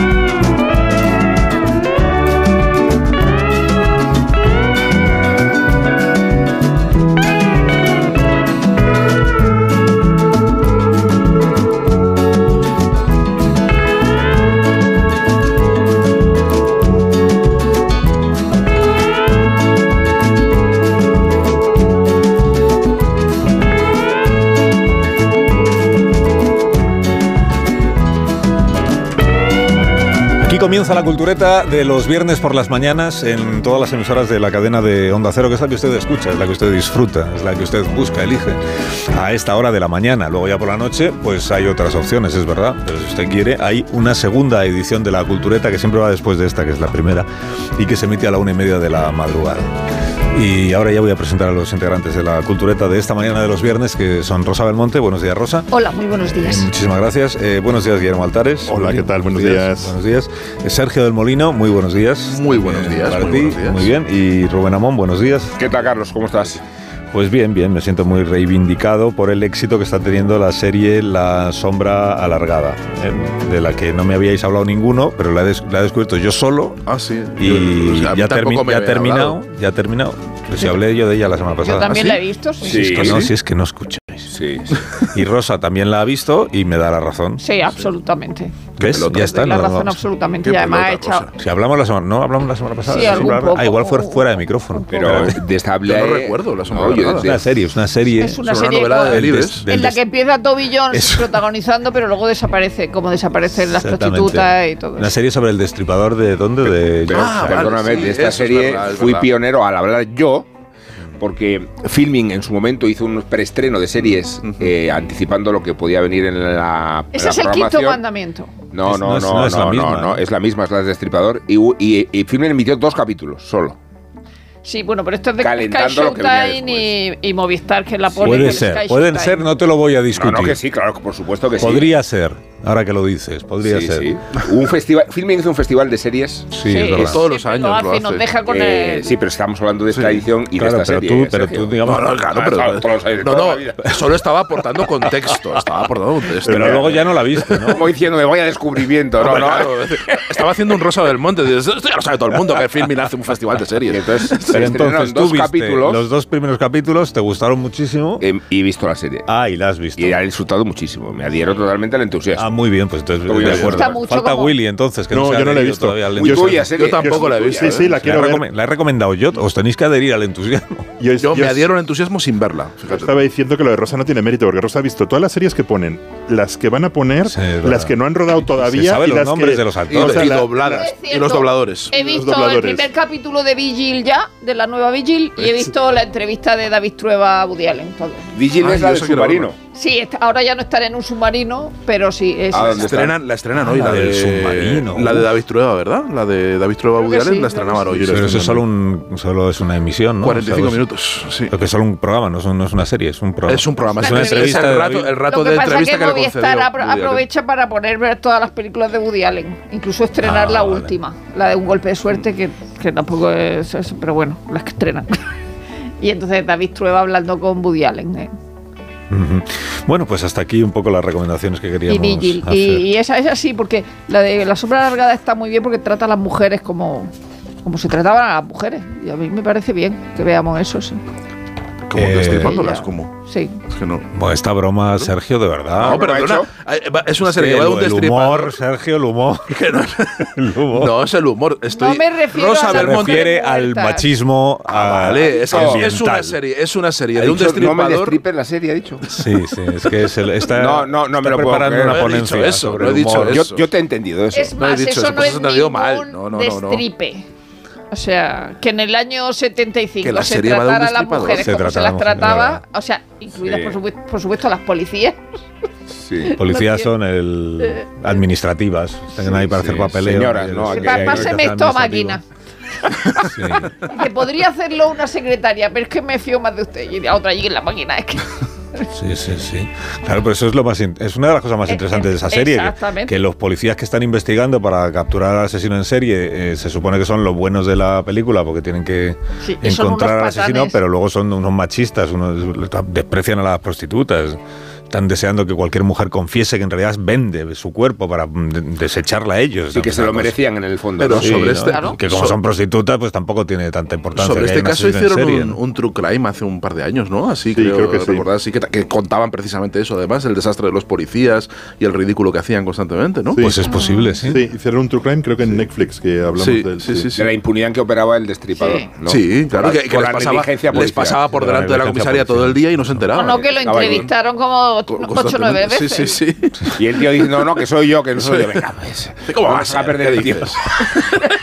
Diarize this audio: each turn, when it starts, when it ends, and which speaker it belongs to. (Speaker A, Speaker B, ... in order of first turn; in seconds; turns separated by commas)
Speaker A: 30.4-38.6, Speaker A: 39.1-49.7, Speaker A: 50.3-55.7, Speaker B: 55.7-56.7, Speaker A: 56.2-65.6, Speaker C: 58.7-59.9, Speaker D: 62.2-63.9, Speaker E: 65.6-66.6, Speaker A: 67.1-76.8, Speaker D: 76.8-79.4, Speaker A: 77.4-82.0, Speaker B: 81.6-83.0, Speaker D: 81.8-83.3, Speaker E: 82.6-83.3, Speaker A: 82.9-84.3, Speaker E: 84.3-84.8, Speaker A: 85.1-87.4, Speaker B: 87.4-91.3, Speaker D: 88.8-89.3, Speaker A: 88.8-90.0, Speaker D: 90.4-91.3, Speaker A: 91.4-95.4, Speaker B: 92.8-95.1, Speaker E: 94.9-97.4, Speaker D: 95.1-97.4, Speaker A: 97.2-98.5, Speaker B: 98.2-105.1, Speaker D: 98.3-99.9, Speaker A: 99.0-100.0, Speaker D: 101.0-101.3, Speaker A: 103.5-107.8, Speaker E: 107.1-110.5, Speaker D: 107.1-109.3, Speaker E: 111.2-118.0, Speaker D: 114.4-114.7, Speaker B: 117.1-118.5, Speaker E: 118.7-123.8, Speaker A: 118.8-120.2, Speaker B: 124.6-129.5, Speaker E: 125.4-126.9, Speaker A: 128.2-130.6, Speaker E: 128.3-128.6, Speaker E: 130.1-131.9, Speaker A: 131.6-134.1, Speaker E: 133.6-137.1, Speaker A: 136.5-137.2, Speaker B: 136.6-139.1, Speaker D: 136.9-138.3, Speaker E: 138.5-143.9, Speaker D: 139.9-140.2, Speaker A: 140.6-142.2, Speaker D: 141.8-147.8, Speaker A: 146.4-147.8, Speaker E: 147.7-150.4, Speaker D: 149.2-154.8, Speaker E: 153.9-156.0, Speaker A: 154.5-158.2, Speaker E: 158.2-159.3, Speaker A: 159.3-160.2, Speaker E: 160.0-162.6, Speaker A: 162.4-166.5, Speaker E: 163.3-163.9, Speaker D: 163.4-163.8, Speaker B: 163.7-164.5, Speaker C: 165.1-168.4, Speaker E: 166.1-167.8, Speaker D: 166.2-167.9, Speaker A: 167.9-170.9, Speaker C: 171.0-171.7, Speaker D: 171.2-173.1, Speaker C: 172.9-180.9, Speaker A: 177.3-177.9, Speaker A: 178.4-180.4, Speaker D: 179.9-181.9, Speaker B: 180.7-188.3, Speaker C: 181.9-182.9, Speaker D: 185.4-185.7, Speaker E: 188.3-189.6, Speaker D: 188.5-189.5, Speaker B: 189.7-192.9, Speaker E: 192.5-193.2, Speaker D: 192.7-198.6, Speaker A: 193.6-195.3, Speaker B: 196.9-198.0, Speaker C: 197.9-198.6, Speaker A: 198.1-200.8, Speaker D: 200.2-201.5, Speaker A: 201.5-205.2, Speaker D: 203.4-207.2, Speaker B: 204.0-204.7, Speaker B: 205.3-215.3, Speaker A: 210.2-210.9, Speaker B: 216.0-218.3, Speaker A: 219.1-222.8, Speaker B: 221.9-227.1, Speaker B: 227.6-231.0, Speaker D: 231.9-233.1, Speaker A: 231.9-232.5, Speaker B: 232.2-233.6, Speaker D: 233.7-234.1, Speaker A: 234.1-236.0, Speaker D: 234.9-235.1, Speaker D: 235.7-238.6, Speaker E: 235.8-236.5, Speaker A: 237.2-239.6, Speaker D: 239.5-243.3, Speaker A: 240.2-240.9, Speaker B: 241.7-244.1, Speaker A: 242.6-246.4, Speaker D: 244.7-248.2, Speaker E: 245.3-245.8, Speaker E: 247.2-249.1, Speaker A: 249.1-253.4, Speaker E: 250.6-252.2, Speaker D: 251.8-253.7, Speaker E: 253.3-254.5, Speaker B: 254.3-257.3, Speaker D: 254.5-256.8, Speaker B: 257.9-265.2, Speaker D: 260.0-261.5, Speaker A: 261.3-262.6, Speaker E: 263.4-263.8, Speaker E: 266.0-266.4, Speaker A: 266.3-272.2, Speaker B: 266.4-266.9, Speaker B: 267.6-267.9, Speaker E: 269.5-271.4, Speaker B: 270.7-272.2, Speaker A: 273.2-273.7, Speaker B: 273.8-278.9, Speaker A: 278.9-300.3, Speaker B: 281.7-283.1, Speaker B: 289.4-290.8, Speaker E: 299.7-301.7, Speaker D: 301.0-302.4, Speaker A: 301.1-305.6, Speaker B: 301.7-301.9, Speaker D: 304.1-313.5, Speaker C: 307.5-308.3, Speaker C: 313.3-313.6, Speaker A: 313.4-314.4, Speaker B: 313.7-314.1, Speaker C: 314.2-317.1, Speaker D: 316.4-317.3, Speaker E: 317.1-321.2, Speaker B: 318.6-318.9, Speaker D: 319.1-324.1, Speaker A: 321.3-323.0, Speaker B: 323.1-326.2, Speaker E: 323.2-324.1, Speaker D: 324.9-327.0, Speaker E: 326.8-330.6, Speaker D: 328.2-328.6, Speaker D: 329.2-331.2